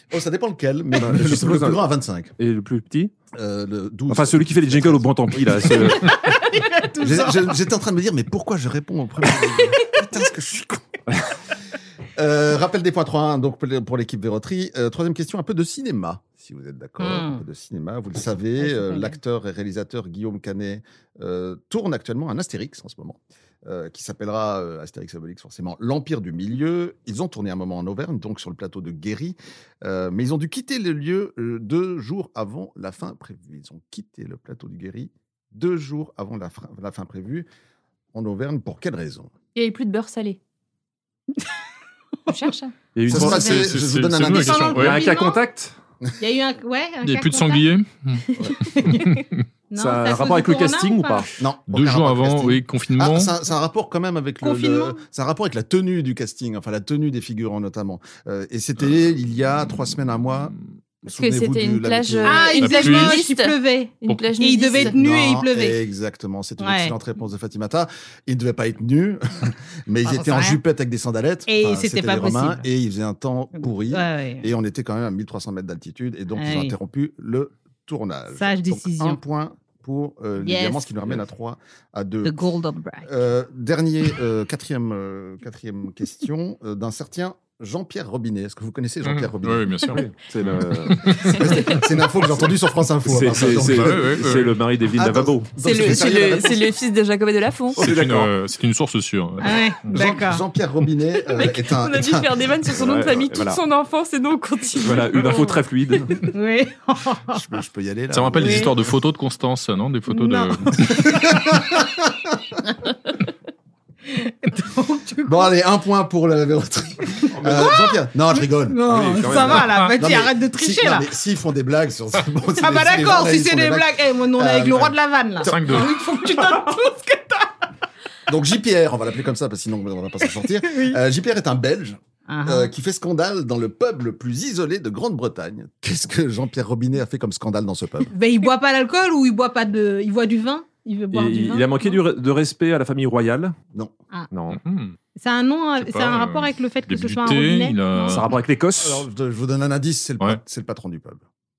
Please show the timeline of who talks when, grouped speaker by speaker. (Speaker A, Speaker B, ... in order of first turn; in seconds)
Speaker A: 0.1-2.3, 3.3-5.7, 7.0-11.0, 12.2-37.5, 38.1-39.3, 43.0-44.8, 51.4-62.5, 64.7-82.4, 83.0-89.7, 91.3-96.7, 99.9-103.0, 107.3-108.9, 110.9-112.1, 115.2-125.0, 128.3-138.1, 148.8-151.2
Speaker B: 1.0-1.8, 2.4-3.1, 4.1-6.1, 42.9-43.7, 44.7-45.7, 49.7-51.3, 89.9-91.5, 93.0-95.8, 97.7-98.3, 102.8-103.6, 104.8-106.1, 118.8-119.8, 141.1-143.6, 144.3-144.6, 148.0-149.0
Speaker C: 5.9-7.5, 17.0-17.4, 18.6-19.1, 44.3-45.4, 46.2-47.6, 48.7-51.3, 54.4-55.0, 62.2-65.8, 66.6-66.9, 70.0-70.6, 71.5-72.6, 73.5-74.5, 76.4-76.7, 78.3-79.2, 80.4-80.9, 82.2-83.1, 99.4-100.4, 106.3-107.4, 108.4-108.7, 110.1-110.8, 114.1-115.5, 117.4-117.9, 118.6-121.1, 122.6-127.5, 130.2-131.0, 132.3-132.7, 138.1-142.0, 145.2-148.2
Speaker D: 39.5-40.4, 42.3-42.7, 61.0-64.9, 95.6-97.8, 101.2-105.6
Speaker E: 43.1-45.0, 47.0-48.3, 48.9-49.4, 51.7-53.3, 62.6-63.2, 89.0-91.4, 93.7-94.5, 97.8-100.0, 108.1-111.2, 125.4-125.9, 144.5-144.9, 145.8-148.3